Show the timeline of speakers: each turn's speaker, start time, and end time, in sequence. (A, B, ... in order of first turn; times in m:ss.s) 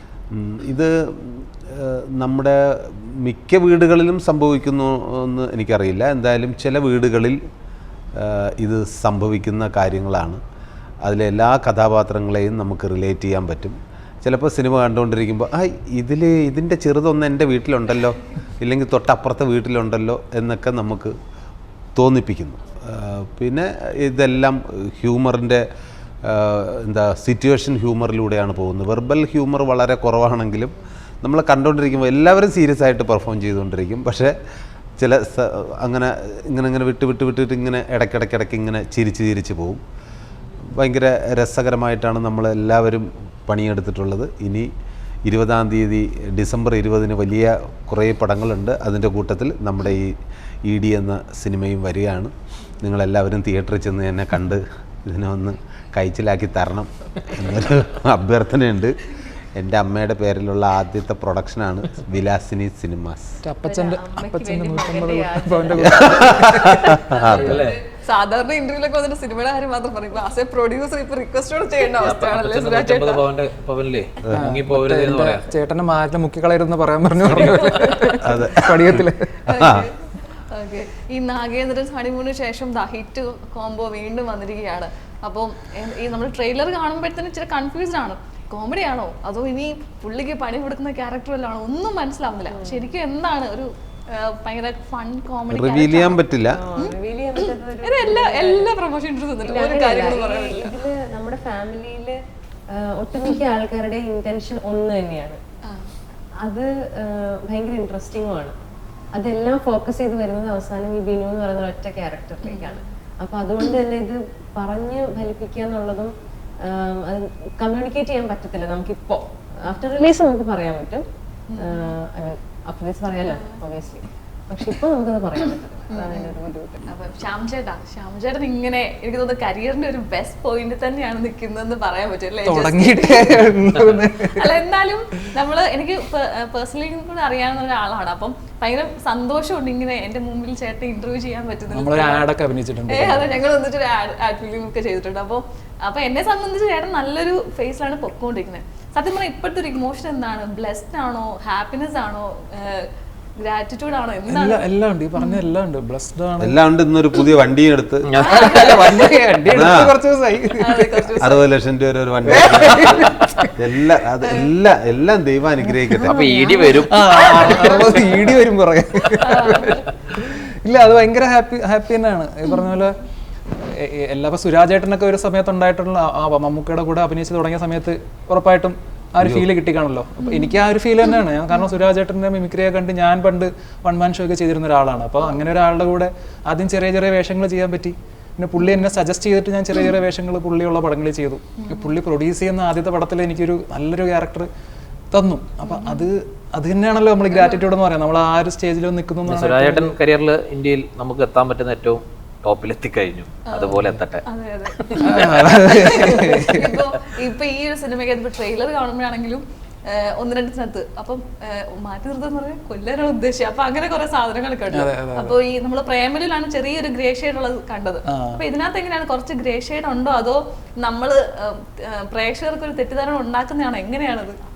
0:00.3-0:07.4 A
0:08.1-0:10.4 A
0:11.0-0:21.2 A
0:22.0-0:25.6 A
0:26.2-0:34.4 A
0:35.0-0:39.8 A
0:40.6-0:44.7 A
0:45.2-0:59.0 A
0:59.6-1:03.4 A
1:03.4-1:06.8 B
1:03.6-1:06.9 C
1:05.9-1:07.7 A
1:06.6-1:13.2 D
1:07.4-1:07.8 E
1:12.0-1:15.4 E
1:14.3-1:19.4 B
1:17.3-1:17.7 E
1:18.2-1:19.9 A
1:19.4-1:36.2 D
1:32.5-1:32.8 C
1:35.5-1:36.6 A
1:36.5-1:38.7 C
1:36.8-1:40.7 D
1:39.4-1:45.4 C
1:45.6-1:45.9 D
1:46.4-1:48.5 C
1:49.1-2:01.0 C
1:52.4-1:52.9 D
2:01.5-2:02.0 D
2:01.6-2:06.8 C
2:03.3-2:03.6 D
2:05.9-2:22.3 D
2:12.4-2:14.6 B
2:21.7-2:23.4 B
2:22.9-2:35.5 D
2:34.3-2:36.6 B
2:36.4-2:38.1 A
2:38.0-2:38.7 E
2:38.2-2:39.3 D
2:38.2-2:41.1 B
2:39.5-2:40.0 A
2:40.6-2:41.4 D
2:41.2-2:46.2 A
2:42.3-2:43.6 B
2:42.7-2:43.2 E
2:44.2-2:44.5 D
2:46.0-2:47.7 E
2:46.0-2:48.3 D
2:46.9-2:53.0 B
2:49.2-2:49.9 D
2:53.5-3:14.5 B
2:59.2-2:59.5 A
3:00.2-3:00.6 D
3:11.6-3:11.9 D
3:15.1-3:20.0 B
3:15.6-3:16.1 D
3:17.3-3:17.6 D
3:19.2-3:24.2 E
3:23.5-3:44.4 D
3:24.9-3:26.8 B
3:25.2-3:25.5 E
3:34.7-3:35.4 B
3:38.1-3:38.4 B